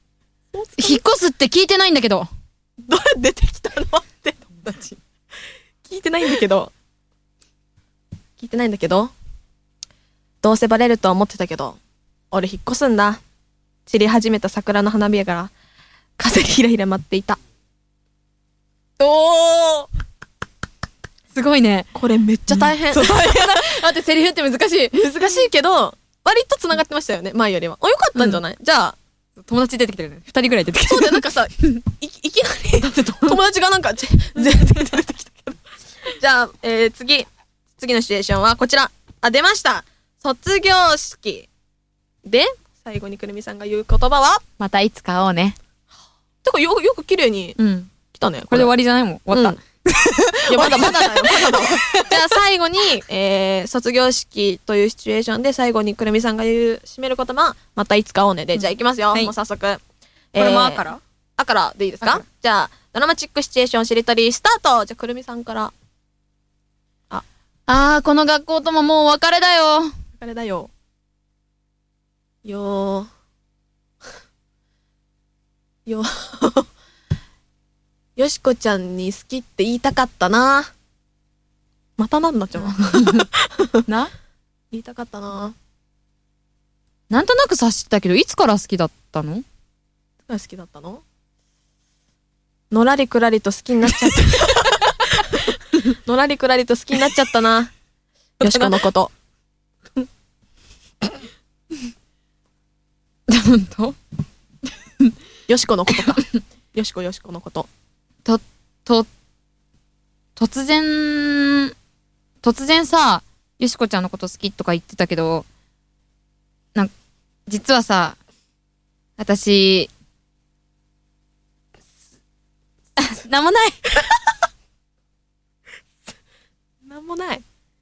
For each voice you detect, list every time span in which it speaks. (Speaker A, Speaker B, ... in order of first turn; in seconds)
Speaker A: 0.5-1.0, 2.8-4.6, 5.8-6.7, 8.4-9.1, 10.4-11.8, 12.3-13.2, 13.9-15.5, 16.2-17.4, 19.0-19.9, 21.9-23.5, 24.9-29.0, 30.8-41.5, 42.2-44.4, 46.4-47.6, 48.1-48.7, 49.3-49.6, 50.5-59.8, 60.3-65.7, 70.2-70.7, 72.5-73.1, 75.9-76.7, 78.2-80.7, 82.0-83.8, 84.7-85.5, 90.3-91.0, 92.7-97.7, 98.4-99.1, 105.5-107.7, 126.9-127.4
Speaker B: 0.8-2.3, 4.5-5.0, 21.3-21.9, 22.5-25.1, 28.2-28.4, 29.4-31.8, 32.8-33.4, 44.6-45.6, 47.6-47.9, 48.5-52.3, 58.5-59.3, 60.4-61.0, 67.7-69.9, 82.6-83.3, 83.9-84.1, 87.1-89.4, 98.4-98.8, 103.3-104.0, 106.0-106.3, 108.2-109.1, 110.4-111.7, 112.4-115.5, 117.5-118.2, 119.2-119.9, 123.0-123.8